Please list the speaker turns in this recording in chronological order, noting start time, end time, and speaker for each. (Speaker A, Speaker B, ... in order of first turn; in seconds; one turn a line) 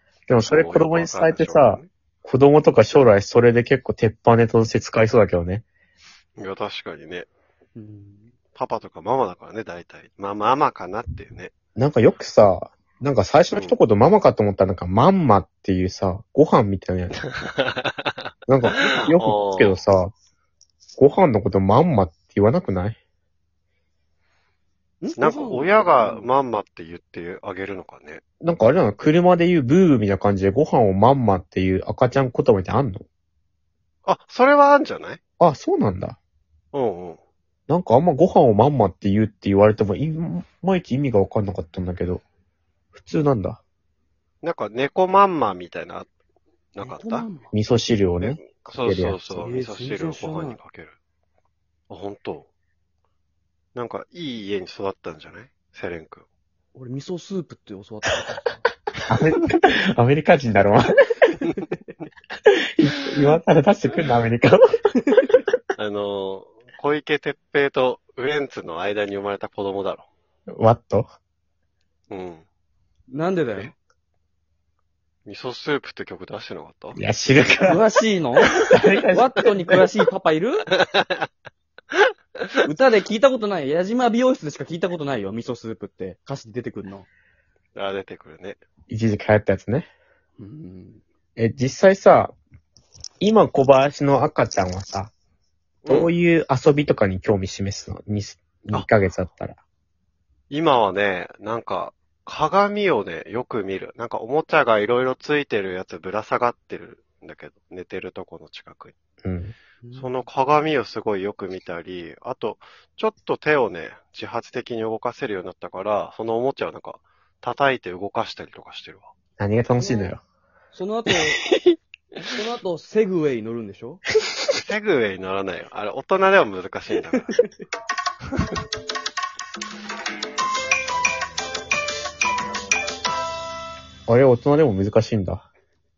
Speaker A: 0.3-5.7
Speaker B: 0.4-1.9
Speaker B: 6.4-7.3
Speaker C: 7.8-8.3
Speaker B: 8.6-11.5
Speaker A: 11.8-17.2
Speaker B: 13.5-13.8
Speaker B: 17.6-18.1
Speaker A: 18.5-20.1
Speaker B: 18.8-19.8
Speaker A: 21.0-23.0
Speaker C: 25.0-26.3
Speaker B: 25.1-28.2
Speaker A: 28.4-33.0
Speaker B: 34.0-35.2
Speaker A: 35.4-36.2
Speaker B: 36.7-37.2
Speaker A: 37.7-42.2
Speaker A: 42.9-43.6
Speaker B: 44.4-46.1
Speaker B: 46.8-47.3
Speaker C: 46.8-47.5
Speaker A: 47.5-49.5
Speaker B: 48.2-51.0
Speaker C: 49.4-50.6
Speaker B: 51.9-52.5
Speaker B: 53.8-56.2
Speaker C: 56.8-58.6
Speaker A: 59.1-60.9
Speaker A: 62.8-64.8
Speaker B: 65.8-70.1
Speaker A: 70.6-71.1
Speaker B: 72.1-72.5
Speaker C: 73.1-73.8
Speaker B: 75.3-77.0
Speaker A: 77.0-77.8
Speaker C: 77.7-80.7
Speaker A: 78.7-79.8
Speaker B: 80.8-81.2
Speaker C: 82.7-87.1
Speaker B: 87.8-88.6
Speaker A: 88.9-89.9
Speaker C: 90.4-91.0
Speaker A: 91.4-92.3
Speaker A: 93.2-95.1
Speaker B: 95.8-96.1
Speaker A: 95.9-99.6
Speaker B: 100.5-108.9
Speaker A: 109.2-109.5
Speaker C: 109.8-110.1
Speaker B: 110.0-119.1
Speaker A: 119.4-120.2
Speaker C: 119.8-120.1
Speaker C: 120.7-121.4
Speaker B: 121.5-121.8
Speaker C: 122.3-124.0
Speaker B: 124.5-127.4
Speaker C: 127.2-127.5
Speaker A: 134.1-135.4